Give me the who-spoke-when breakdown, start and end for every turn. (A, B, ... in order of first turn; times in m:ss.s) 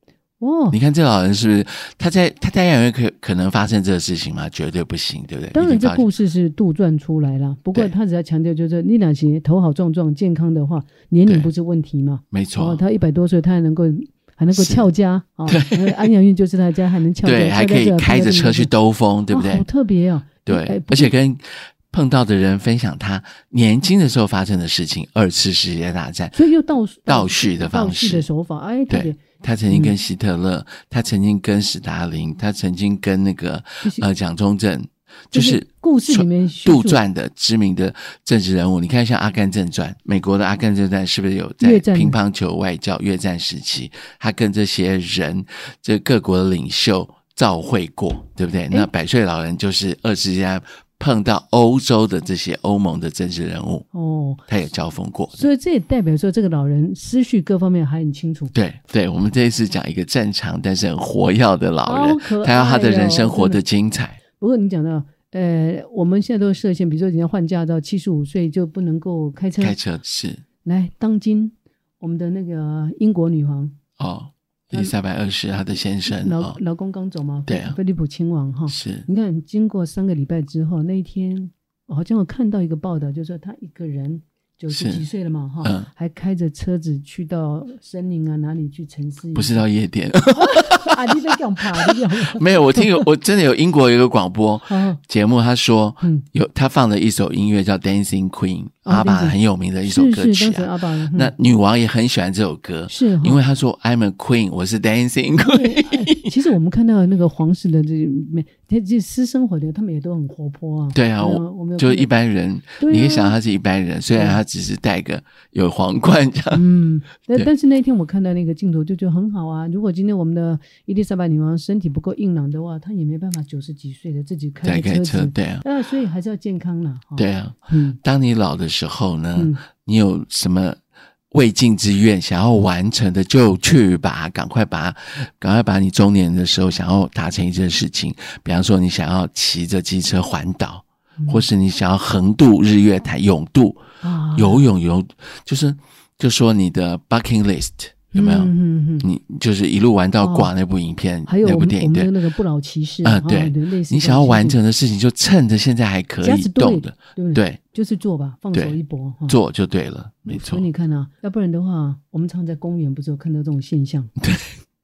0:00.4-0:00.8 A
0:00.7-0:06.0 B
0:05.5-0:18.7 A
0:12.3-0:12.8 B
0:14.6-0:14.9 B
0:15.5-0:16.0 B
0:17.2-0:19.7 B
0:19.3-0:21.1 A
0:20.4-0:26.4 B
0:26.4-0:30.0 A
0:27.1-0:28.3 B
0:28.9-0:53.9 B
0:35.3-0:37.0 A
0:41.6-0:42.2 A
0:53.9-0:54.4 A
0:54.5-0:55.4 B
0:55.3-0:58.5 A
0:58.5-1:04.2 B
1:01.8-1:03.6 A
1:04.4-1:09.8 A
1:09.6-1:10.4 B
1:10.6-1:13.8 A
1:14.0-1:16.6 B
1:16.0-1:29.6 A
1:17.5-1:17.8 B
1:18.7-1:19.0 B
1:24.7-1:25.0 B
1:25.6-1:25.9 B
1:29.4-1:31.2 B
1:30.4-1:33.0 A
1:31.8-1:46.3 B
1:34.7-1:35.0 A
1:38.9-1:41.3 A
1:42.9-1:43.4 A
1:45.4-1:52.1 A
1:50.9-1:56.6 B
1:52.8-1:53.4 A
1:54.1-1:54.4 A
1:56.5-2:08.0 A
2:04.6-2:05.6 B
2:07.2-2:10.8 B
2:09.4-2:09.6 A
2:11.3-2:23.8 B
2:21.2-2:21.4 A
2:24.0-2:24.7 A
2:24.3-2:32.1 B
2:28.1-2:29.1 A
2:30.2-2:30.5 A
2:31.2-2:34.6 A
2:33.0-2:37.6 B
2:36.2-2:39.4 A
2:39.3-2:40.6 B
2:40.3-2:44.1 A
2:44.2-2:44.6 B